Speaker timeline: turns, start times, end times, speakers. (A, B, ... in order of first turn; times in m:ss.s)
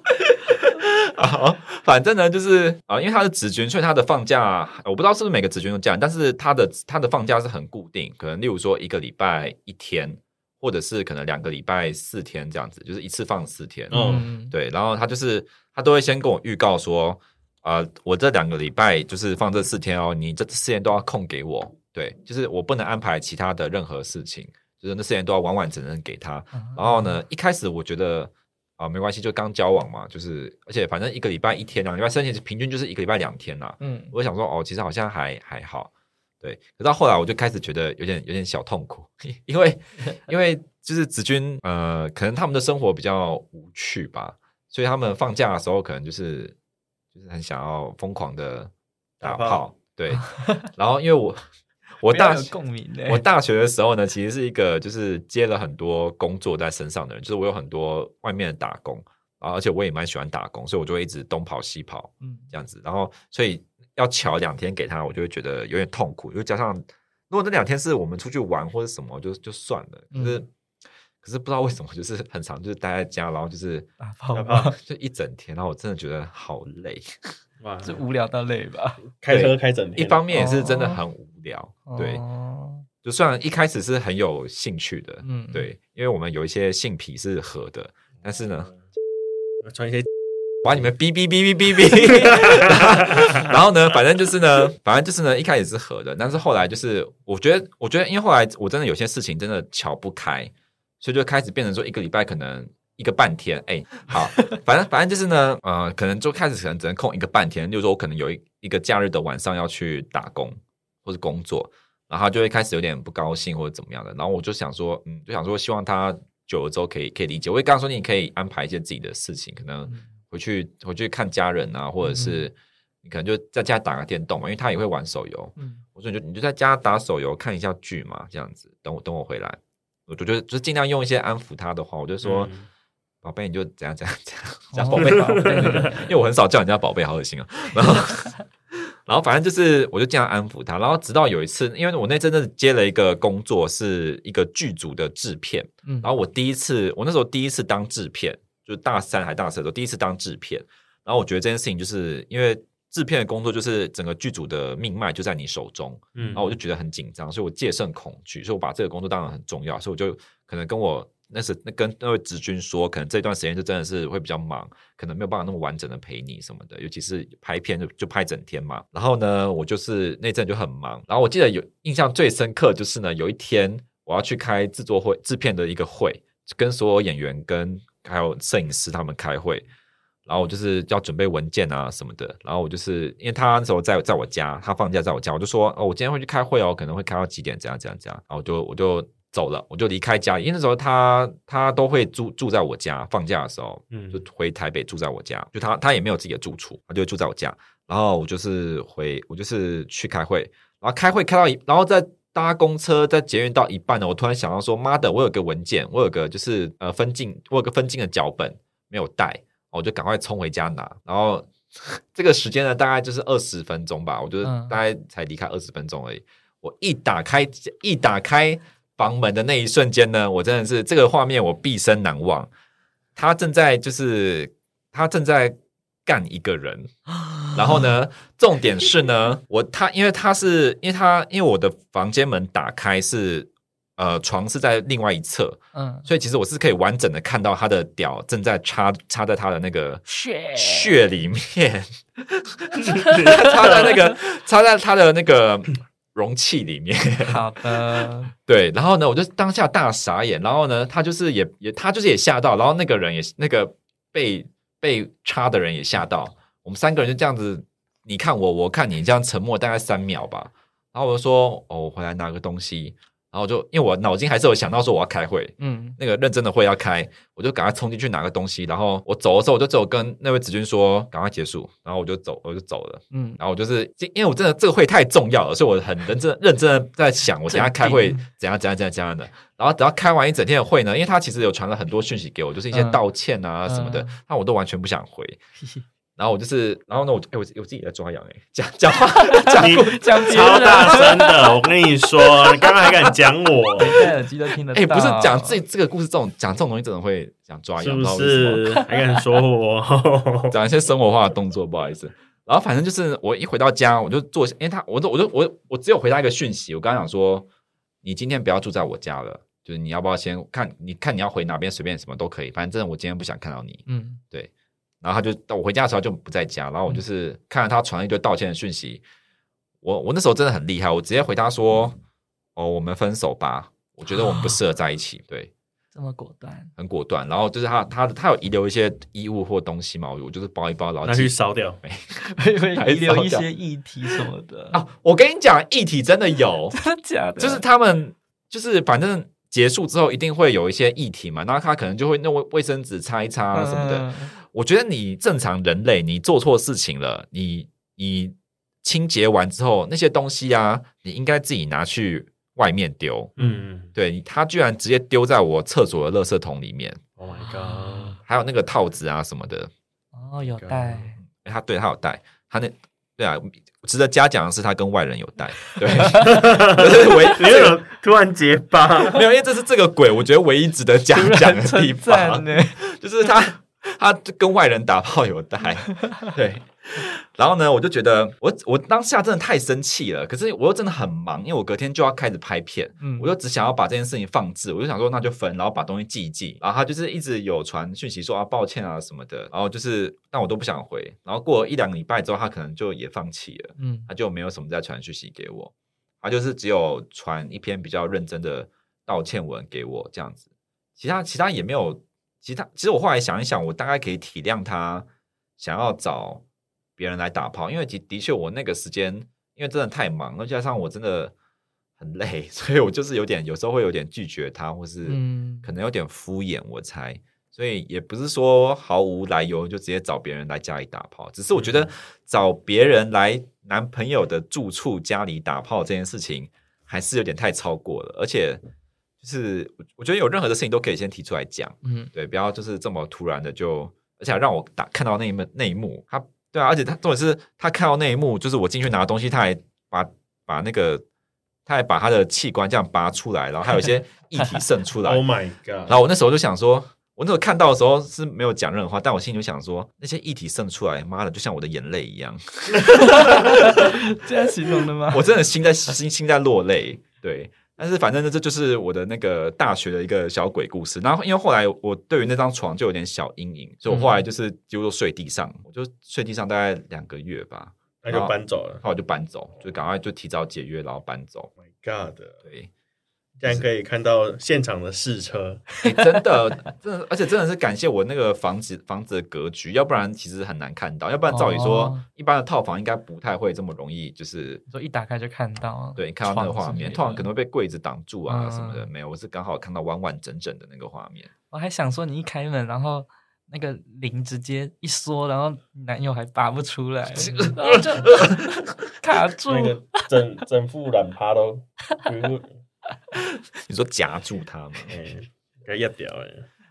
0:00.5-0:46.6 A
0:13.9-0:14.3 B
0:13.9-0:14.5 C
0:26.5-0:27.2 C
0:33.8-0:34.1 C
0:47.1-0:48.7 A
0:49.2-0:49.6 B
0:49.2-0:51.4 A
0:50.2-0:50.6 C
0:52.0-0:52.5 A
0:52.1-0:53.2 C
0:53.1-1:10.5 A
1:02.2-1:02.5 C
1:10.1-1:10.4 C
1:11.2-1:13.9 A
1:14.0-1:14.8 C
1:14.3-1:14.7 B
1:14.8-1:17.3 A
1:17.6-1:18.0 B
1:17.8-1:19.0 C
1:19.2-1:20.2 B
1:19.3-1:22.2 A
1:20.3-1:21.0 C
1:21.9-1:22.9 C
1:23.0-1:28.7 A
1:25.2-1:25.7 C
1:28.4-1:28.8 B
1:29.6-1:30.1 B
1:30.6-2:12.5 A
1:32.4-1:32.7 B
2:02.0-2:02.5 C
2:05.6-2:05.8 C
2:12.2-2:12.7 B
2:13.2-2:18.4 A
2:14.7-2:16.1 C
2:15.0-2:15.9 B
2:19.1-2:59.6 A
2:25.8-2:26.1 C
2:36.2-2:36.5 B
3:00.3-3:42.5 A
3:13.9-3:14.2 B
3:34.4-3:34.8 C
3:43.2-3:47.0 A
3:47.1-3:47.8 C
3:47.5-4:45.4 A
3:55.7-3:56.1 C
4:00.1-4:01.0 C
4:03.0-4:03.5 C
4:03.0-4:03.9 B
4:07.2-4:08.3 C
4:25.6-4:26.0 C
4:33.1-4:33.4 C
4:37.5-4:38.2 C
4:42.7-4:43.0 C
4:43.7-4:44.2 C
4:45.6-4:45.8 C
4:46.2-4:51.1 A
4:49.2-4:51.7 C
4:49.6-4:54.0 B
4:53.8-4:55.6 C
4:54.7-4:58.8 A
4:57.8-5:00.6 B
4:58.8-4:59.2 C
5:00.5-5:07.5 A
5:08.0-5:14.5 A
5:13.9-5:14.2 C
5:15.0-5:19.0 A
5:19.8-5:22.0 A
5:22.6-5:25.5 A
5:24.1-5:24.6 C
5:25.9-5:26.7 C
5:26.8-5:33.5 A
5:31.0-5:31.8 B
5:32.3-5:34.8 C
5:34.7-5:36.8 A
5:36.7-5:37.6 C
5:37.4-5:53.3 A
5:43.5-5:44.3 C
5:53.4-5:53.9 B
5:53.4-5:53.6 C
5:53.9-5:57.0 A
5:57.2-5:58.2 B
5:57.4-5:58.2 C
5:58.2-5:59.7 A
6:00.1-6:01.2 C
6:00.6-6:01.1 B
6:01.2-6:07.8 A
6:05.8-6:06.5 C
6:06.2-6:09.2 B
6:09.0-6:40.4 A
6:11.1-6:12.8 C
6:15.9-6:16.3 C
6:23.0-6:23.3 C
6:33.8-6:34.1 C
6:41.0-6:45.1 A
6:45.6-6:46.4 A
6:47.0-6:51.3 A
6:52.0-7:08.6 A
6:55.1-6:55.7 C
7:09.2-7:21.0 A
7:11.8-7:12.1 C
7:21.7-7:25.2 A
7:25.0-7:26.0 B
7:25.9-7:34.0 A
7:32.9-7:35.3 C
7:35.1-7:51.5 A
7:43.9-7:44.2 C
7:48.0-7:48.8 B
7:51.6-7:52.4 B
7:52.4-7:52.7 A
7:53.4-7:55.7 B
7:55.8-8:04.6 A
8:01.3-8:02.0 C
8:04.7-8:07.3 C
8:06.0-8:11.3 A
8:08.3-8:08.9 C
8:11.5-8:19.8 C
8:17.2-8:18.9 A
8:19.5-8:22.6 B
8:23.2-8:24.9 A
8:24.9-8:26.5 B